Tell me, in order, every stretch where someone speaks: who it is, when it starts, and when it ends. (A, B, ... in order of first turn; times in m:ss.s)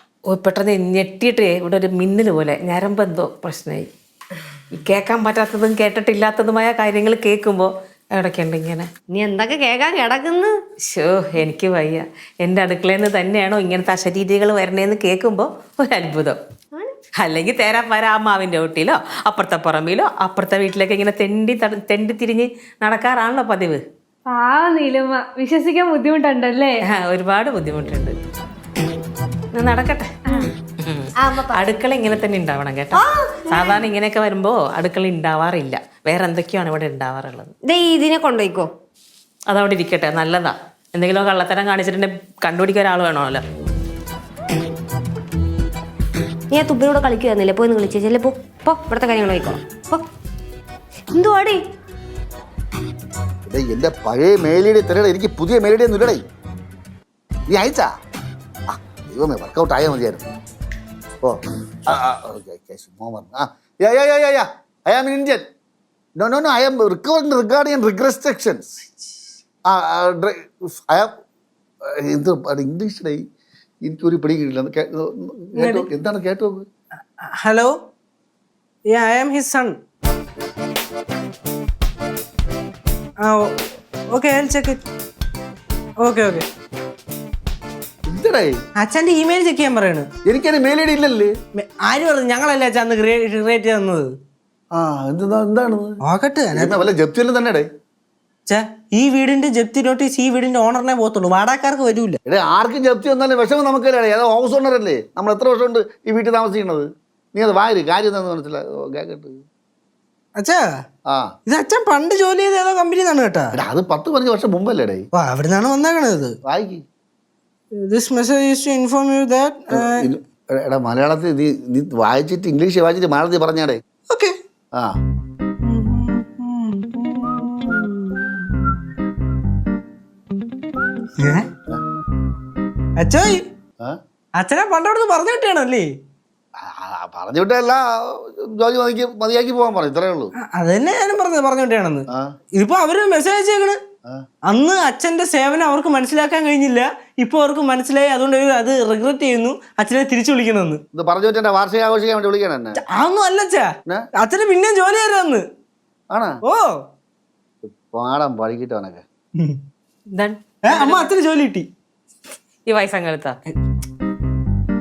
0:00.3-0:03.9 A
0:04.7-0:08.9 A
0:09.1-0:10.6 B
0:10.9-0:16.4 A
0:17.2-0:23.8 A
0:24.3-0:26.7 C
0:26.9-0:28.2 A
0:29.5-0:30.1 A
0:30.8-0:37.5 A
0:31.2-0:31.6 B
0:32.9-0:33.8 B
0:37.6-0:38.7 B
0:39.5-0:43.4 A
0:46.5-0:50.0 B
0:51.1-0:51.6 B
0:53.5-0:56.2 D
0:57.5-0:57.9 D
0:58.7-1:00.3 D
1:01.2-1:05.4 D
1:06.2-1:08.7 D
1:09.7-1:11.1 D
1:11.8-1:13.2 D
1:13.8-1:16.7 D
1:15.6-1:15.9 E
1:17.4-1:17.8 E
1:18.9-1:19.8 E
1:24.1-1:24.8 E
1:26.0-1:26.4 E
1:28.1-1:28.6 D
1:28.8-1:30.1 E
1:30.2-1:31.3 D
1:31.5-1:34.1 E
1:34.7-1:36.0 D
1:36.0-1:36.8 E
1:36.5-1:37.7 D
1:38.5-1:42.2 E
1:42.2-1:49.4 D
1:50.4-1:50.8 E
1:51.5-1:53.5 E
1:53.6-1:55.0 D
1:55.1-1:56.4 E
1:56.4-1:56.8 D
1:57.8-2:00.0 E
1:59.7-2:03.8 D
2:05.6-2:08.5 E
2:11.2-2:11.5 E
2:13.0-2:13.4 E
2:14.4-2:15.9 E
2:16.6-2:20.3 D
2:20.4-2:23.8 E
2:24.5-2:30.8 E
2:30.9-2:32.8 D
2:32.8-2:35.4 E
2:36.5-2:36.7 E
2:37.6-2:39.0 D
2:40.1-2:41.1 A
2:40.6-2:41.7 E
2:42.7-2:43.4 A